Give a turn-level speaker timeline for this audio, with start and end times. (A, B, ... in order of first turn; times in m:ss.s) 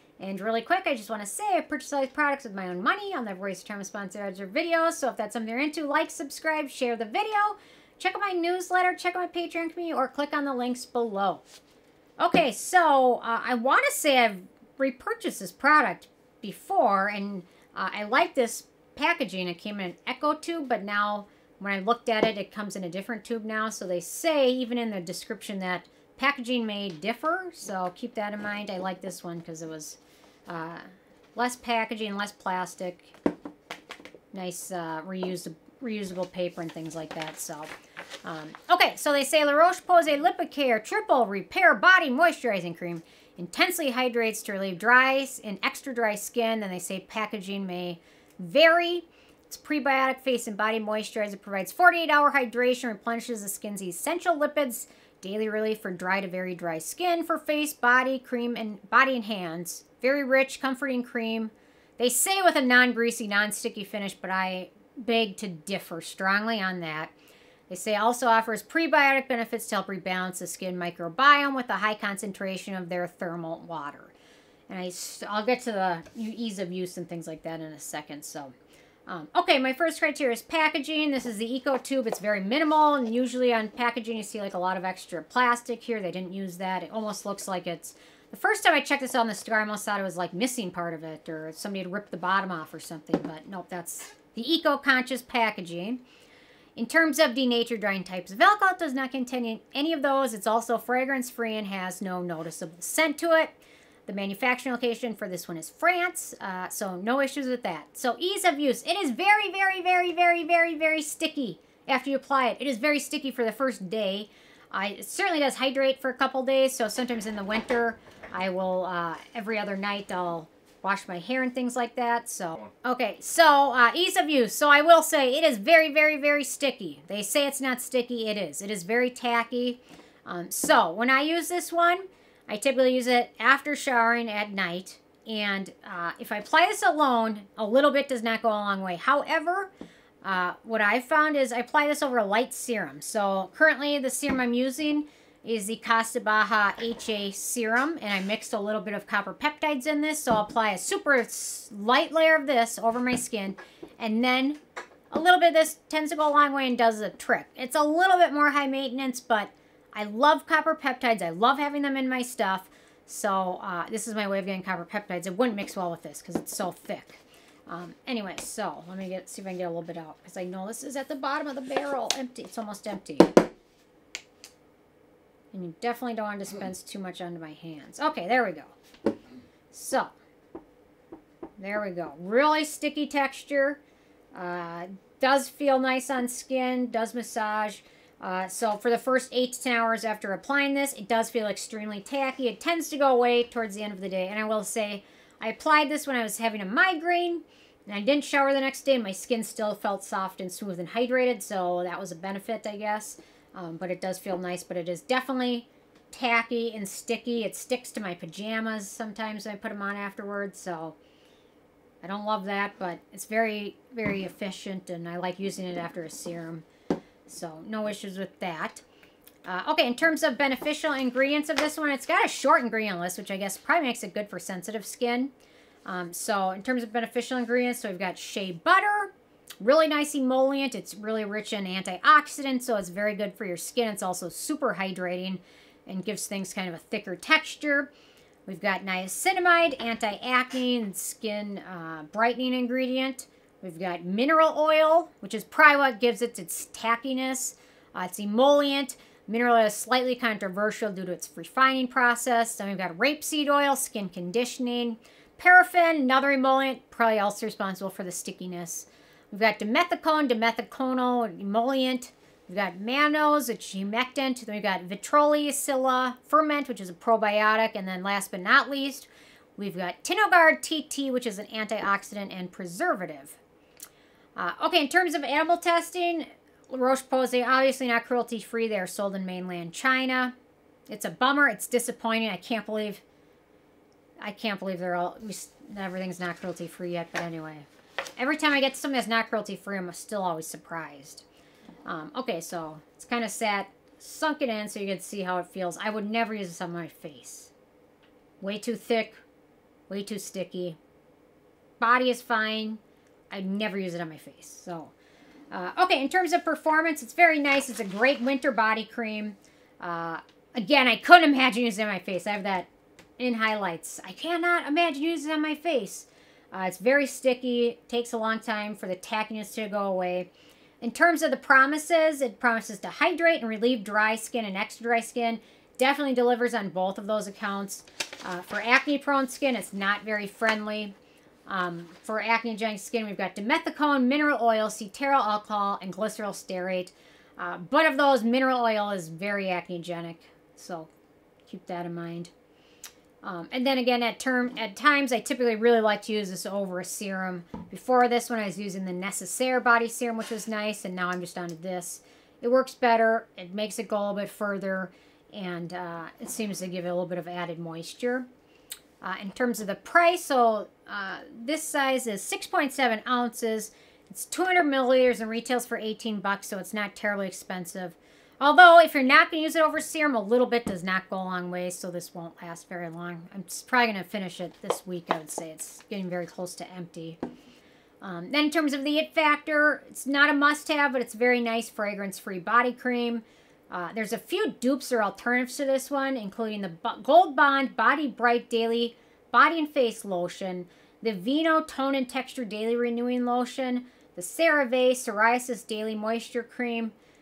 0:00.2-0:11.4 A
0:12.2-0:33.1 A
0:34.3-0:37.7 A
0:38.2-1:07.1 A
1:07.7-1:14.1 A
1:14.7-1:18.5 A
1:19.1-1:36.0 A
1:36.8-1:43.5 A
1:44.1-2:19.7 A
2:20.2-2:34.6 A
2:35.1-2:53.4 A
2:55.5-2:58.7 A
2:59.7-3:00.1 A
3:01.6-3:03.8 A
3:04.3-3:31.0 A
3:32.0-3:36.6 A
3:37.3-3:38.8 A
3:39.4-3:45.3 A
3:45.8-3:57.9 A
3:58.4-4:33.4 A
4:34.4-4:40.3 A
4:40.9-4:43.0 A
4:44.2-4:47.6 A
4:48.2-4:51.2 A
4:51.8-4:57.5 A
4:58.4-4:59.2 A
4:59.9-5:00.8 A
5:01.8-5:04.9 A
5:05.5-5:12.7 A
5:13.2-5:20.3 A
5:20.8-5:30.9 A
5:31.4-5:40.9 A
5:41.5-5:42.3 A
5:43.2-5:58.2 A
5:59.0-6:17.2 A
6:18.0-6:36.9 A